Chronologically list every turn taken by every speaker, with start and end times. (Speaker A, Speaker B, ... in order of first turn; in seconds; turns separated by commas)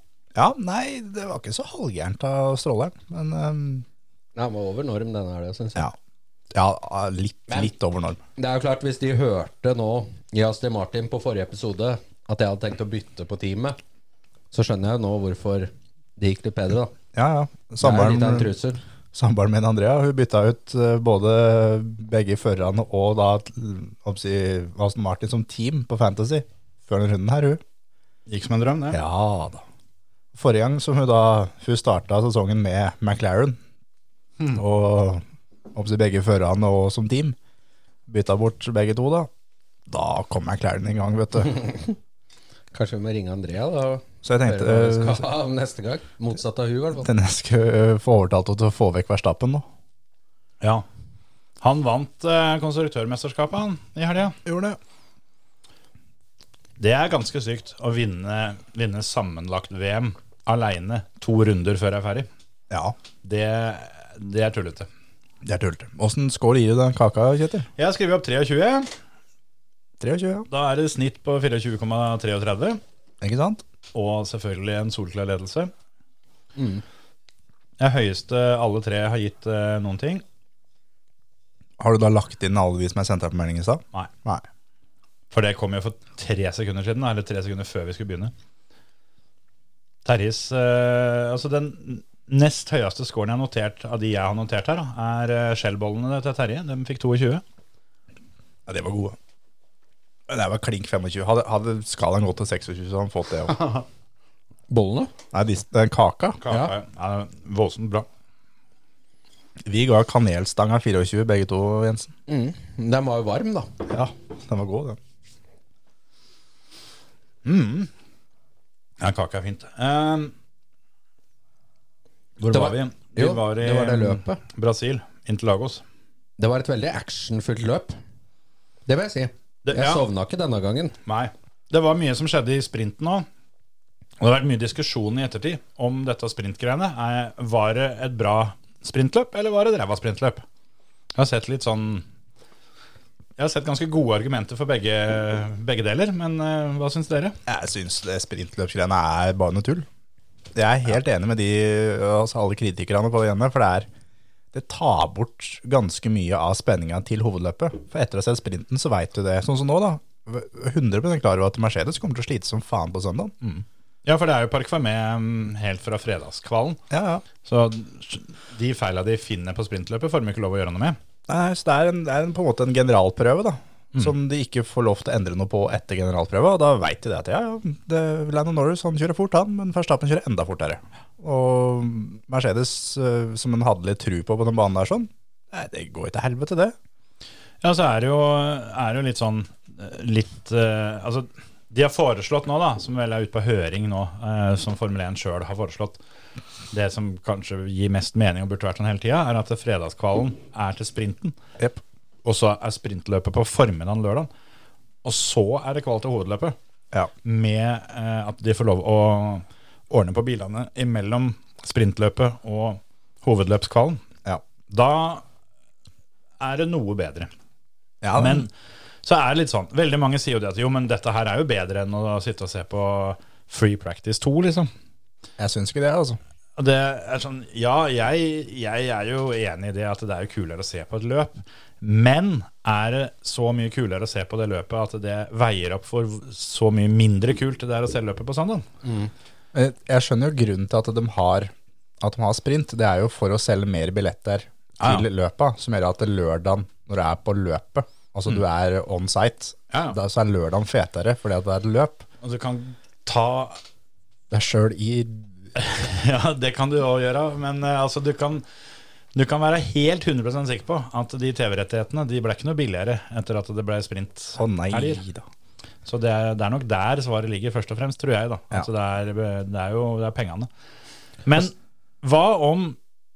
Speaker A: 0.3-3.9, Speaker B: 4.3-5.9, Speaker A: 6.5-8.2, Speaker B: 8.3-13.8, Speaker B: 14.5-16.9, Speaker A: 17.1-18.5, Speaker B: 17.8-18.8, Speaker A: 19.1-27.6, Speaker C: 28.3-29.0, Speaker A: 28.9-29.6, Speaker A: 30.3-33.6, Speaker A: 34.5-35.2, Speaker A: 35.8-37.4, Speaker A: 38.1-39.3, Speaker A: 39.9-41.6, Speaker B: 41.4-42.0, Speaker B: 42.7-47.1, Speaker A: 44.2-45.2, Speaker A: 47.0-49.6, Speaker C: 51.6-54.4, Speaker A: 54.4-54.8, Speaker C: 56.8-62.3, Speaker A: 62.7-63.0, Speaker C: 63.2-64.9, Speaker A: 65.4-67.7, Speaker C: 67.8-68.9, Speaker A: 70.0-70.5, Speaker C: 70.5-72.8, Speaker A: 73.2-73.6, Speaker C: 73.9-75.7, Speaker B: 76.5-76.8, Speaker C: 77.8-80.2, Speaker A: 81.8-84.4, Speaker C: 85.3-88.3, Speaker C: 90.0-97.4, Speaker A: 98.7-99.2, Speaker A: 100.3-103.6, Speaker B: 104.7-105.1, Speaker A: 105.3-106.4, Speaker C: 106.4-108.1, Speaker B: 106.5-106.7, Speaker A: 109.6-112.1, Speaker B: 112.3-113.7, Speaker A: 113.9-115.0, Speaker C: 117.4-117.9, Speaker C: 119.0-120.3, Speaker C: 122.4-125.8, Speaker B: 122.5-124.4, Speaker B: 126.4-128.0, Speaker B: 128.9-130.9, Speaker C: 129.6-130.0, Speaker C: 131.1-133.3, Speaker C: 134.2-140.4, Speaker C: 141.1-142.0, Speaker C: 143.4-147.4, Speaker A: 147.4-149.9, Speaker A: 150.5-153.9, Speaker A: 154.5-163.3, Speaker C: 163.4-166.8, Speaker A: 166.9-167.2, Speaker C: 167.4-171.0, Speaker A: 171.3-186.8, Speaker C: 187.6-196.0, Speaker C: 196.7-201.4, Speaker C: 202.2-204.3, Speaker C: 205.0-206.6, Speaker C: 207.2-214.0, Speaker C: 214.7-215.2, Speaker C: 216.4-217.3, Speaker A: 218.0-218.4, Speaker C: 218.2-218.5, Speaker C: 219.0-224.7, Speaker A: 225.4-226.2, Speaker C: 226.6-238.7, Speaker B: 238.8-239.1, Speaker A: 239.5-252.1, Speaker C: 244.8-245.1, Speaker C: 249.7-250.0, Speaker C: 252.2-253.6, Speaker A: 254.3-255.3, Speaker C: 255.6-258.4, Speaker C: 259.1-265.0, Speaker A: 264.4-265.2, Speaker C: 265.8-270.5, Speaker C: 271.2-272.8